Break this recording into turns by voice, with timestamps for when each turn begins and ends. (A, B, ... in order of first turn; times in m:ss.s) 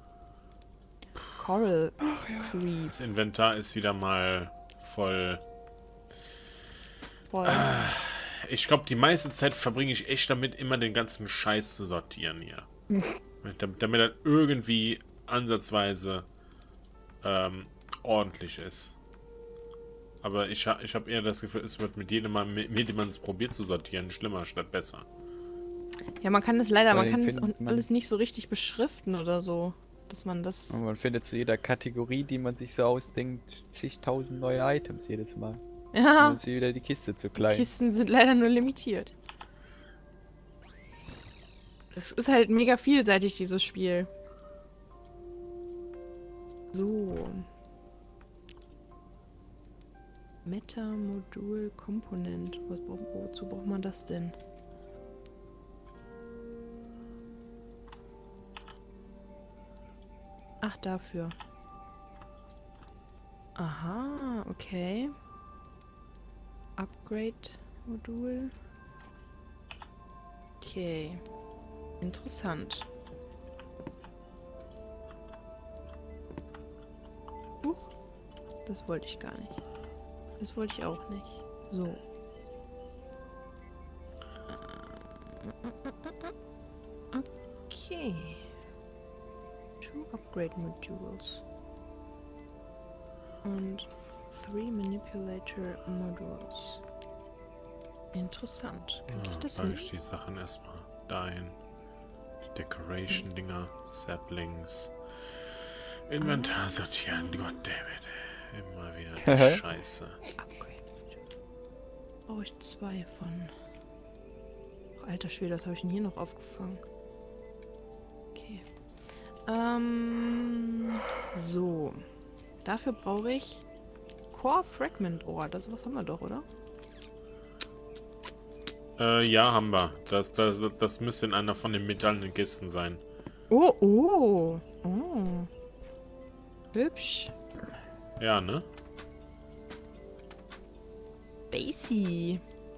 0:01.4-0:02.9 A
0:02.9-0:05.4 B
0:07.3-0:07.7 A
0:07.4-0:12.6 B
0:13.4-0:16.2 B
0:17.2-0:19.0 B
0:20.2-0:25.0 B
0:26.2-0:30.8 A
0:26.9-0:27.8 C
0:30.7-0:35.6 C
0:35.9-0:36.4 A
0:36.2-0:37.7 C
0:37.4-0:39.1 A
0:41.9-0:44.1 A
0:46.7-0:47.4 A
0:50.4-0:54.4 A
1:00.6-1:01.4 A
1:03.6-1:05.1 A
1:06.8-1:08.5 A
1:10.6-1:11.2 A
1:12.0-1:12.8 A
1:17.6-1:17.9 A
1:18.6-1:19.6 A
1:20.4-1:22.0 A
1:24.5-1:26.3 A
1:27.1-1:28.5 A
1:29.8-1:31.4 A
1:33.4-1:36.8 A
1:38.1-1:39.9 A
1:39.1-1:41.6 B
1:42.5-1:44.9 B
1:46.1-1:50.2 B
1:46.2-1:46.6 A
1:47.1-1:47.6 A
1:49.2-1:49.6 C
1:50.4-1:50.8 A
1:52.3-1:53.5 A
1:55.0-1:56.8 A
1:58.3-1:58.6 A
1:59.4-2:02.0 A
2:02.6-2:03.6 A
2:04.3-2:06.4 A
2:09.0-2:13.0 B
2:13.5-2:15.5 A
2:16.7-2:17.3 A
2:18.2-2:18.6 B
2:21.5-2:22.4 A